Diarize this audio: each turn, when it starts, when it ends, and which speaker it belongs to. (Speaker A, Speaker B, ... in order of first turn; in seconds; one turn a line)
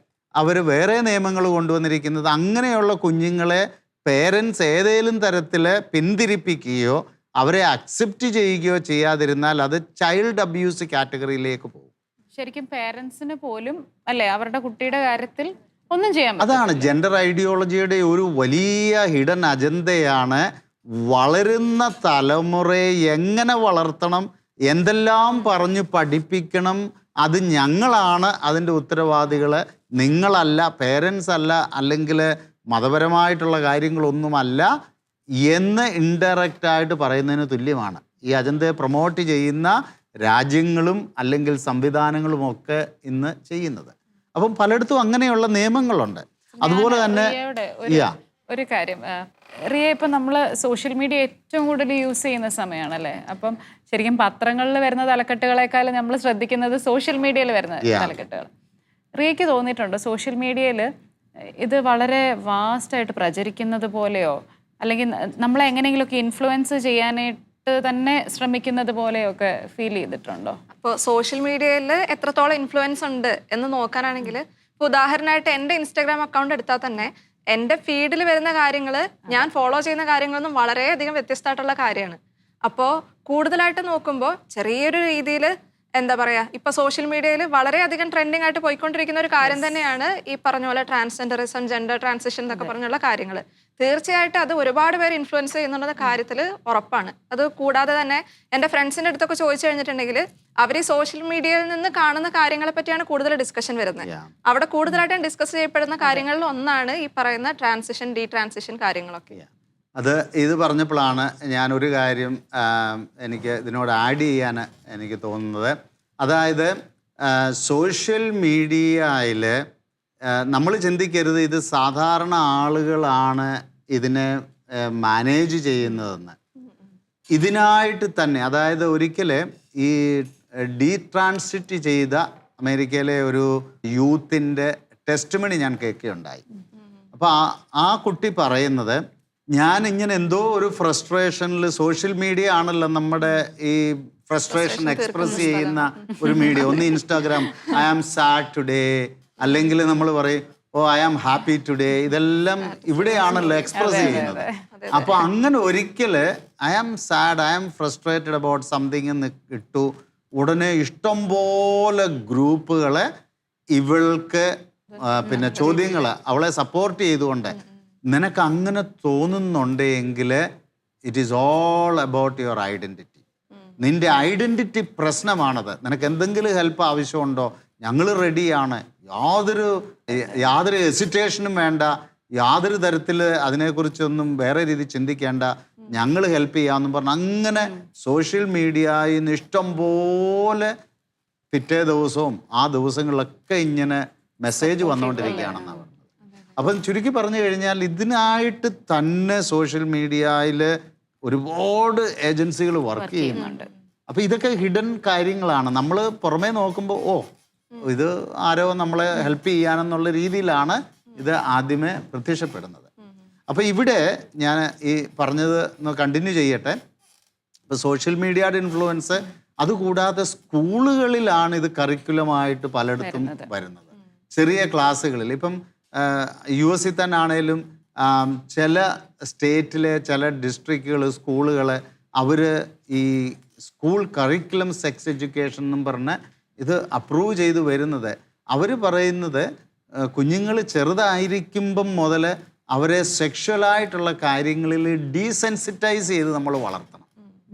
Speaker A: 0.4-11.9
Speaker B: 12.3-16.9
Speaker A: 16.4-20.4
Speaker A: 21.1-34.7
Speaker A: 35.4-47.4
Speaker B: 46.6-58.5
Speaker A: 47.9-48.1
Speaker A: 57.8-58.1
Speaker B: 59.2-60.9
Speaker B: 61.6-70.6
Speaker C: 70.7-109.4
Speaker A: 104.0-104.3
Speaker A: 110.0-119.6
Speaker A: 120.3-126.4
Speaker A: 127.3-136.4
Speaker A: 137.1-139.0
Speaker A: 139.5-163.1
Speaker C: 144.5-146.5
Speaker B: 146.2-146.8
Speaker C: 152.7-155.2
Speaker B: 153.8-154.6
Speaker A: 163.7-167.6
Speaker A: 168.1-170.4
Speaker A: 171.1-173.2
Speaker A: 173.8-190.8
Speaker A: 191.5-196.0
Speaker B: 194.7-195.8
Speaker A: 196.6-203.6
Speaker B: 203.0-203.7
Speaker A: 204.1-207.3
Speaker A: 207.8-212.9
Speaker A: 213.5-216.8
Speaker A: 217.7-239.5
Speaker B: 223.0-223.5
Speaker A: 240.1-247.1